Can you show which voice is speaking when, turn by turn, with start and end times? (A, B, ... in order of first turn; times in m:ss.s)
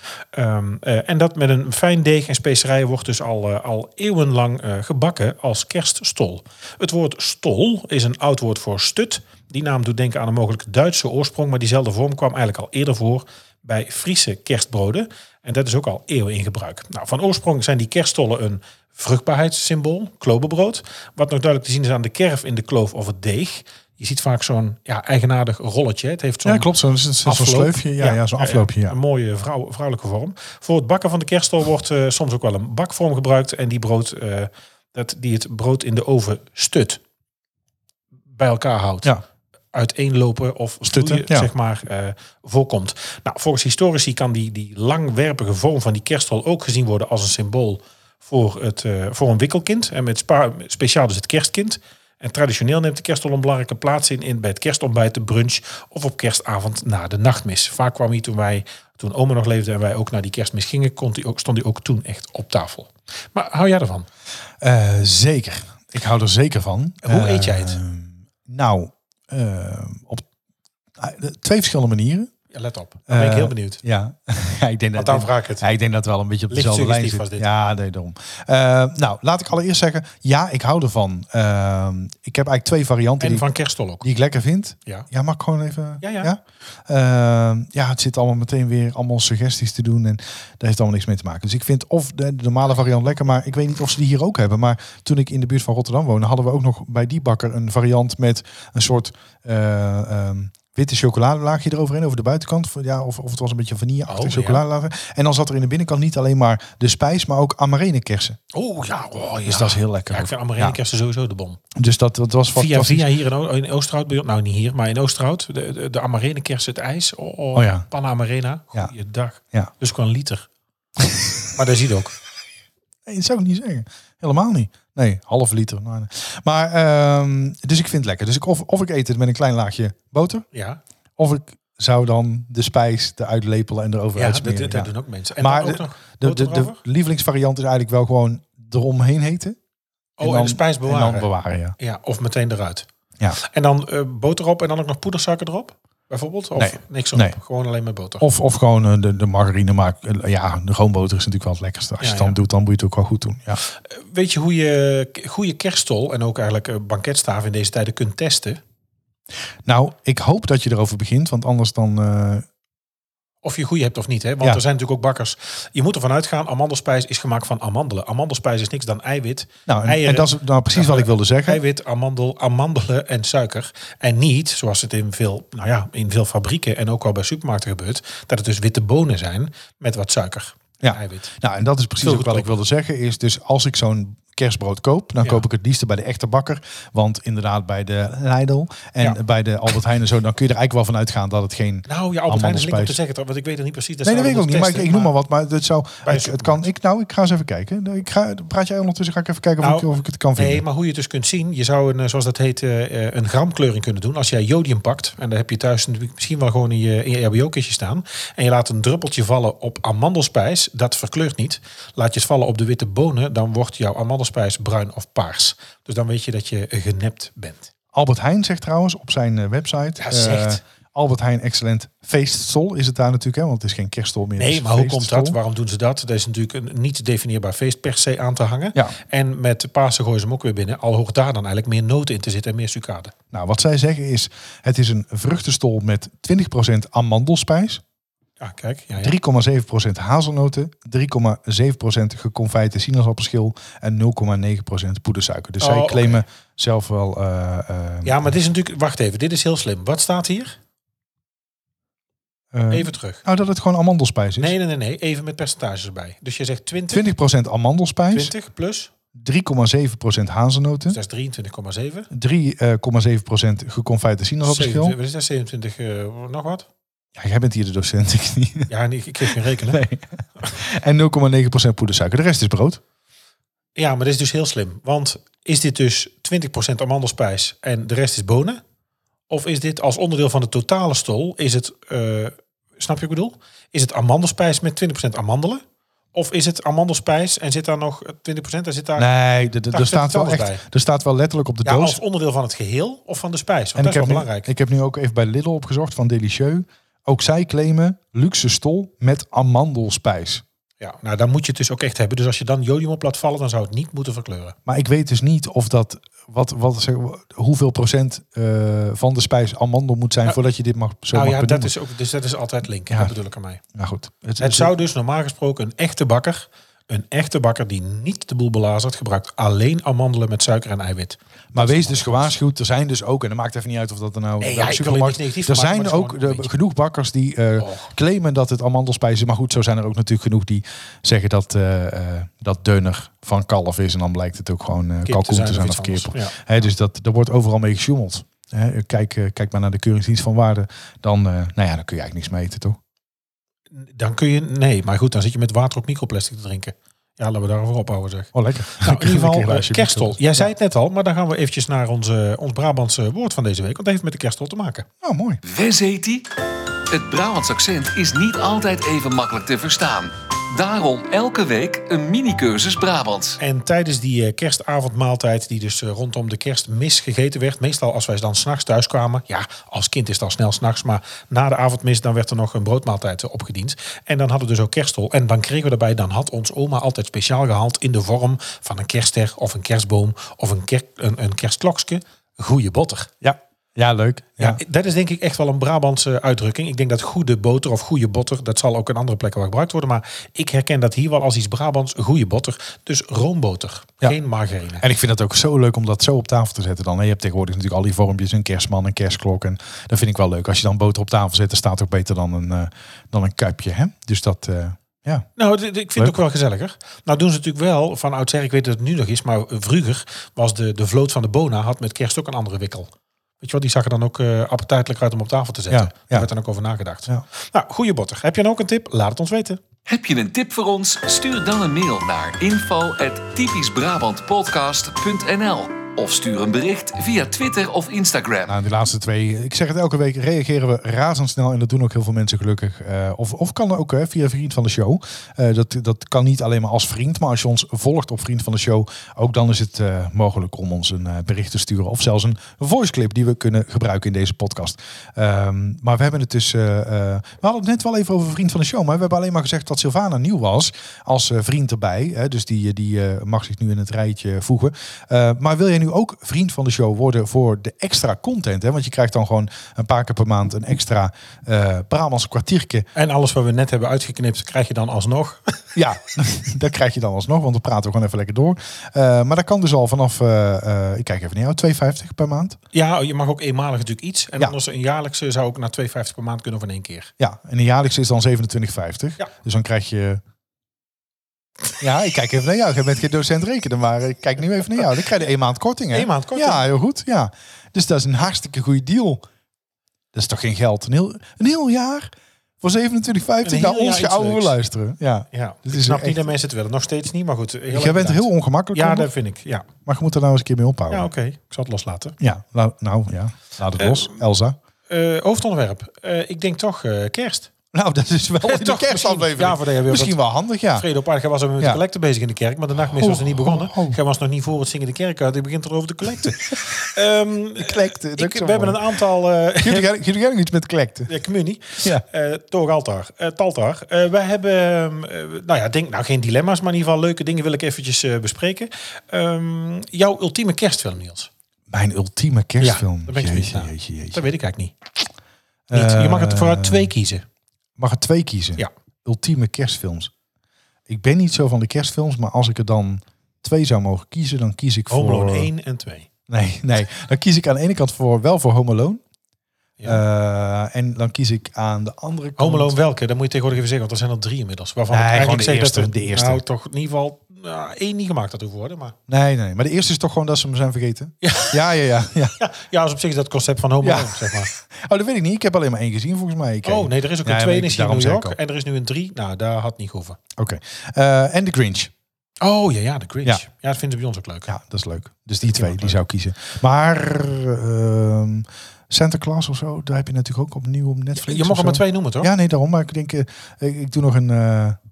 0:00.3-0:26.7 A
0:26.4-0:29.0 B
0:27.2-0:37.0 A
0:38.3-0:39.2 A
0:39.7-1:04.1 A
0:40.8-0:41.5 B
1:04.6-1:10.2 B
1:07.0-1:07.8 A
1:11.0-1:12.3 B
1:12.5-1:13.8 A
1:13.1-1:23.5 B
1:15.0-1:15.7 A
1:16.5-1:17.5 A
1:23.2-1:24.1 A
1:24.0-1:48.4 B
1:26.0-1:26.3 A
1:44.1-1:44.6 A
1:48.5-1:51.6 A
1:49.5-1:50.8 B
1:51.8-1:53.1 B
1:52.5-2:00.5 A
1:57.6-1:57.9 B
2:01.0-2:01.4 B
2:01.6-2:02.1 A
2:03.1-2:10.4 B
2:10.5-2:10.8 A
2:11.2-2:19.6 B
2:14.2-2:16.8 A
2:20.2-2:22.9 A
2:20.2-2:21.8 B
2:23.4-2:28.2 A
2:26.6-2:27.4 B
2:28.2-2:33.6 B
2:32.0-2:32.4 A
2:33.8-2:38.6 A
2:39.6-2:42.4 B
2:43.4-3:01.3 A
2:49.7-2:51.6 B
3:00.8-3:13.0 B
3:02.0-3:02.5 A
3:11.9-3:15.1 A
3:14.0-3:20.6 B
3:16.1-3:16.7 A
3:19.6-3:37.7 A
3:37.9-3:45.4 B
3:40.0-3:40.6 A
3:44.4-3:53.1 A
3:53.3-3:57.8 B
3:58.4-3:59.1 A
3:59.0-4:08.3 B
4:05.6-4:06.2 A
4:08.0-4:10.6 A
4:12.5-4:14.6 B
4:12.7-4:13.2 A
4:14.4-4:17.1 A
4:16.9-4:18.3 B
4:18.1-4:18.9 A
4:19.2-4:21.0 B
4:20.9-4:22.1 A
4:22.1-4:25.0 B
4:24.4-4:26.7 A
4:27.2-4:28.7 B
4:28.7-4:29.8 A
4:29.2-4:32.8 B
4:33.8-4:38.6 A
4:39.3-4:45.6 A
4:46.1-4:49.1 A
4:49.0-4:52.0 B
4:49.7-4:50.6 A
4:51.6-4:54.5 A
4:53.8-5:00.4 B
5:00.8-5:04.6 A
5:04.7-5:11.7 B
5:11.1-5:13.6 A
5:12.9-5:13.2 B
5:13.7-5:14.7 B
5:14.4-5:22.3 A
5:21.5-5:42.8 B
5:24.4-5:26.5 A
5:27.6-5:27.9 A
5:35.0-5:36.4 A
5:43.7-5:54.9 A
5:48.3-5:50.5 B
5:55.0-5:55.4 B
5:55.4-5:56.2 C
5:56.9-6:03.4 C
6:03.4-6:23.1 A
6:23.2-6:24.6 B
6:24.4-6:34.8 A
6:34.8-6:45.3 B
6:45.4-6:52.9 A
6:53.4-6:59.6 A
6:55.7-6:56.3 B
6:59.9-7:08.5 C
7:08.5-7:42.9 B
7:43.0-7:45.7 A
7:45.8-7:52.6 B
7:52.7-7:57.1 A
7:57.2-8:00.2 B
8:01.8-8:09.2 B
8:05.9-8:06.6 A
8:10.1-8:16.2 B
8:13.4-8:14.6 A
8:15.3-8:19.7 A
8:17.7-8:19.1 B
8:19.8-8:21.1 B
8:20.9-8:22.2 A
8:22.2-8:24.6 B
8:23.8-8:24.2 A
8:24.9-8:27.5 A
8:27.7-8:30.9 B
8:28.4-8:30.2 A
8:30.8-8:39.9 A
8:32.9-8:34.0 B
8:36.2-8:36.6 B
8:37.6-8:38.9 B
8:39.6-8:41.1 B
8:41.1-8:51.3 A
8:51.7-8:54.2 B
8:52.6-8:54.8 A
8:55.7-8:56.9 B
8:55.7-8:57.2 A
8:57.8-9:00.1 B
9:00.9-9:05.5 B
9:04.9-9:06.1 A
9:06.3-9:09.0 B
9:09.8-9:12.8 B
9:12.4-9:19.0 A
9:14.9-9:16.4 B
9:19.1-9:22.4 B
9:21.2-9:21.6 A
9:22.4-9:24.5 A
9:23.8-9:28.4 B
9:26.6-9:30.2 A
9:30.4-9:31.9 B
9:32.4-9:34.5 A
9:34.5-9:44.8 B
9:35.4-9:36.0 A
9:41.2-9:42.3 A